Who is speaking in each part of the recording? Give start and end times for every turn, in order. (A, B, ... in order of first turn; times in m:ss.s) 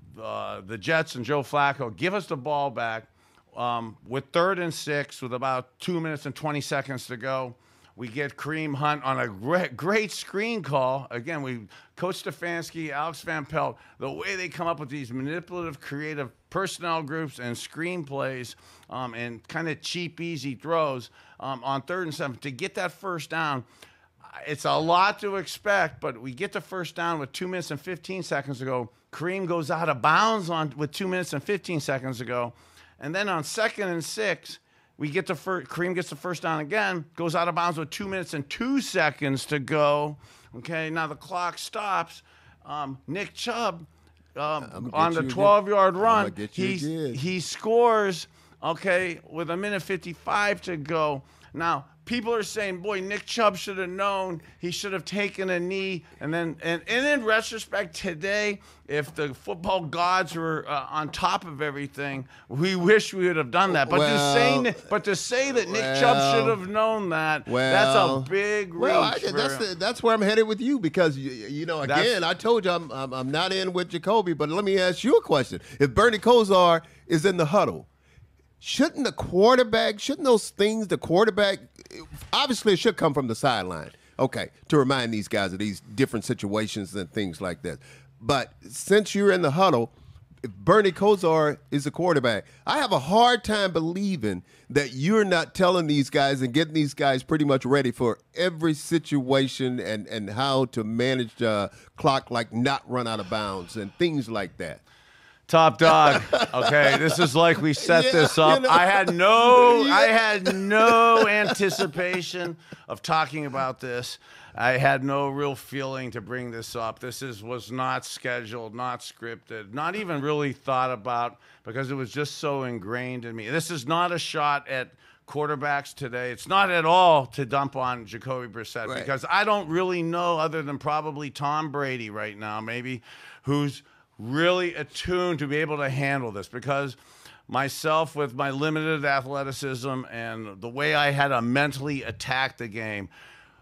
0:00.1-0:23.6 A
0:24.3-1:09.6 A
0:44.6-0:47.2 B
1:03.7-1:04.8 B
1:05.6-1:06.6 B
1:07.5-1:17.9 B
1:11.8-1:12.1 A
1:18.6-1:29.9 B
1:30.4-1:44.8 B
1:45.5-2:17.0 A
1:45.8-1:51.9 B
2:17.5-2:23.1 A